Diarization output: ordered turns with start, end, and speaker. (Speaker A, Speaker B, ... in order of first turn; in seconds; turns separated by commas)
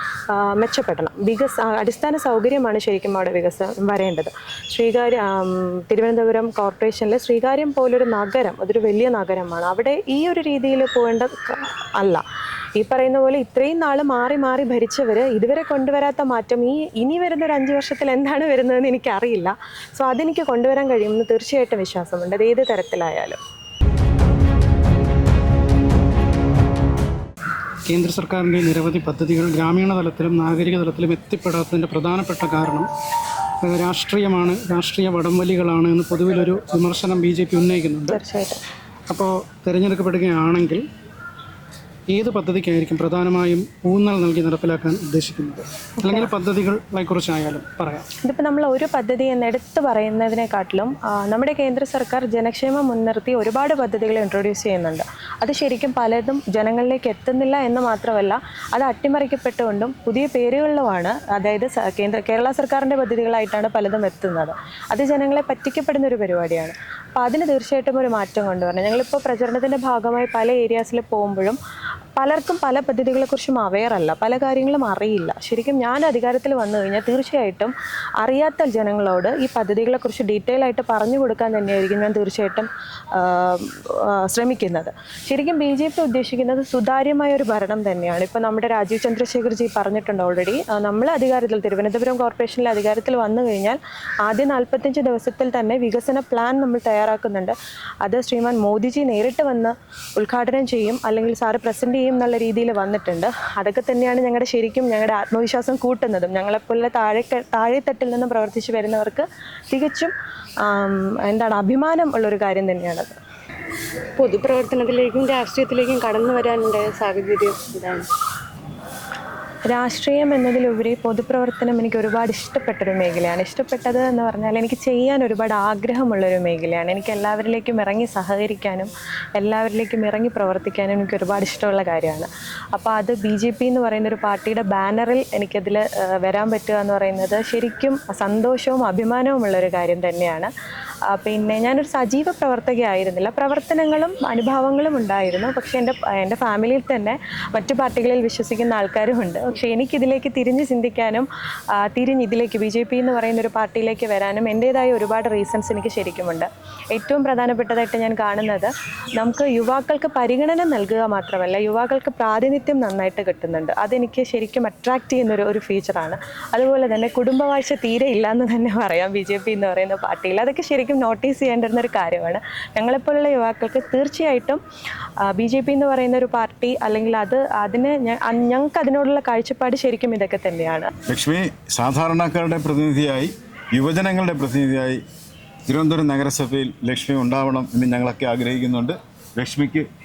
Speaker A: 0.3-12.2, Speaker A: 12.8-23.4, Speaker B: 27.9-32.9, Speaker B: 33.6-38.2, Speaker A: 38.1-38.6, Speaker B: 39.1-40.9, Speaker B: 42.1-48.1, Speaker A: 46.0-46.3, Speaker A: 48.2-71.6, Speaker A: 72.2-113.2, Speaker C: 114.2-118.1, Speaker A: 119.7-140.5, Speaker A: 141.1-174.6, Speaker A: 175.3-180.9, Speaker D: 181.1-185.0, Speaker D: 185.7-189.9